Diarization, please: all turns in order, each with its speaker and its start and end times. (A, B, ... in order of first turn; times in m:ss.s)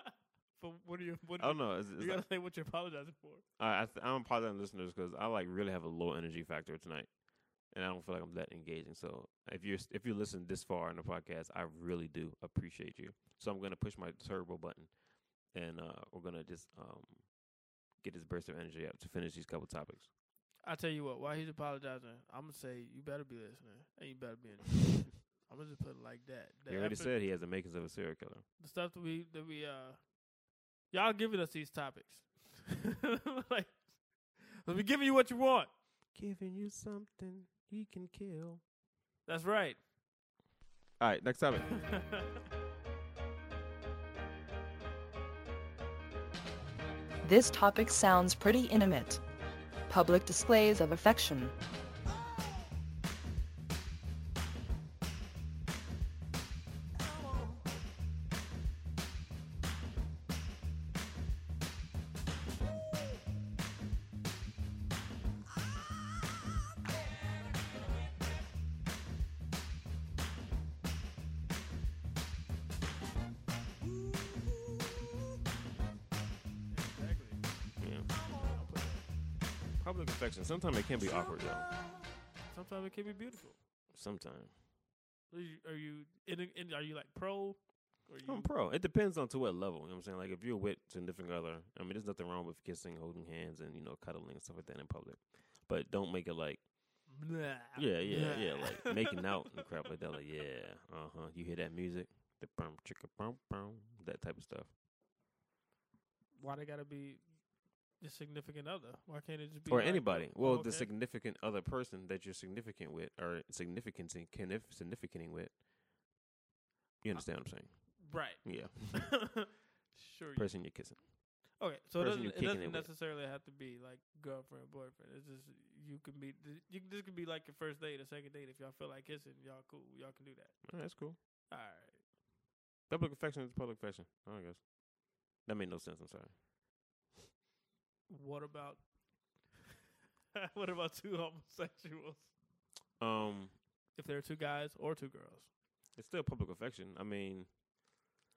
0:00.5-0:03.4 A
0:01.4-0:02.3 B
0:03.6-0:17.4 B
0:17.9-0:20.1 B
0:20.6-0:27.2 A
0:26.7-0:28.4 B
0:28.6-0:30.1 A
0:30.9-0:35.7 A
0:36.1-0:38.6 B
0:39.2-0:39.8 A
0:41.0-0:42.0 B
0:41.8-0:42.2 A
0:47.2-0:49.2 C
0:49.9-0:51.5 C
1:16.7-1:17.4 A
1:17.8-1:18.1 B
1:18.3-1:19.0 A
1:19.8-1:21.7 B
1:22.5-1:23.6 A
1:23.9-1:24.6 B
1:25.3-1:28.5 A
1:28.2-1:44.7 B
1:37.0-1:39.2 A
1:46.4-1:50.9 A
1:49.7-1:55.6 B
1:57.0-1:59.2 B
1:57.1-2:00.9 A
2:00.4-2:02.9 B
2:01.6-2:12.0 A
2:10.6-2:11.2 B
2:12.9-2:14.7 B
2:15.3-2:16.4 B
2:18.1-2:18.9 A
2:20.3-2:22.3 A
2:23.0-2:23.6 B
2:23.9-2:25.5 A
2:25.9-2:27.5 B